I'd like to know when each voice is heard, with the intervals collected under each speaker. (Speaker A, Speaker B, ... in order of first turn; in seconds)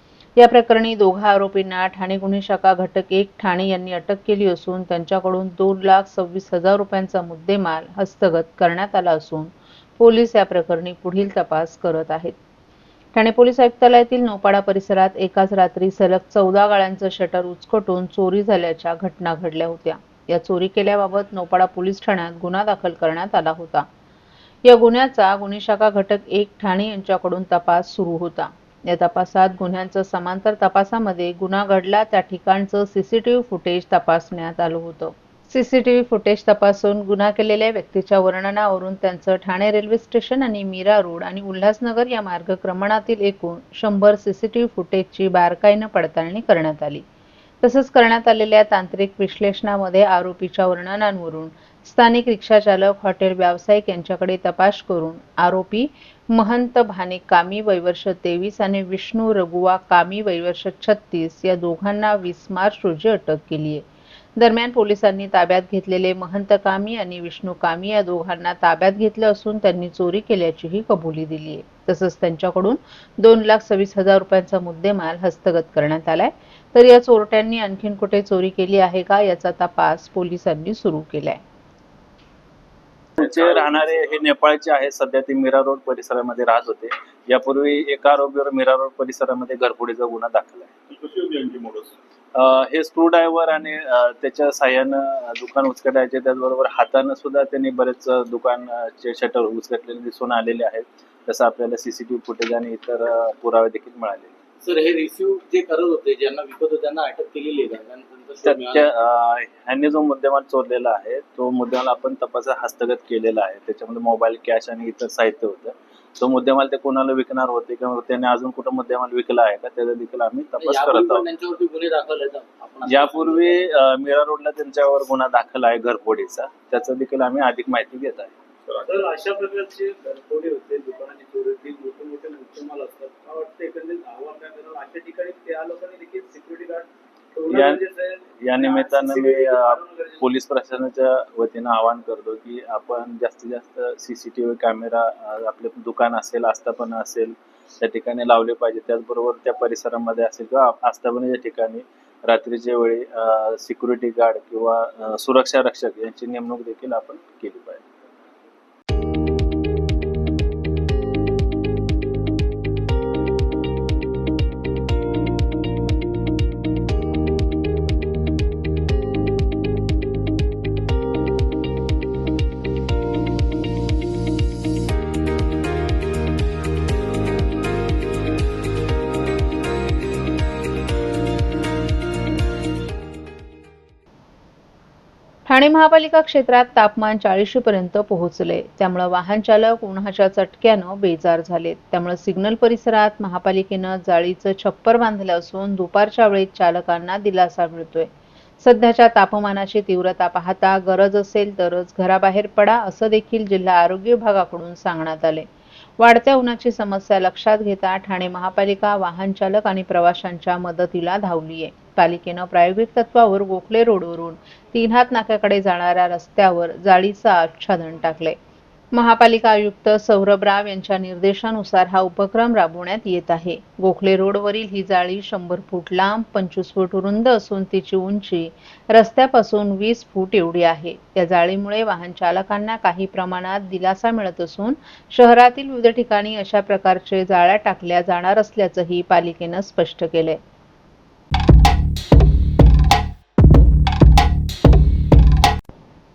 Speaker A: 0.4-12.4, 13.1-23.9, 24.6-47.0, 47.6-63.9, 64.4-81.4, 185.4-198.1, 198.6-205.4, 206.0-218.4, 218.9-240.4
Speaker B: 83.2-90.8, 92.3-104.4, 108.4-121.3, 122.8-128.3, 137.5-137.8, 138.4-157.8
Speaker C: 104.6-108.9, 120.6-123.6
Speaker D: 128.7-138.2, 138.8-140.1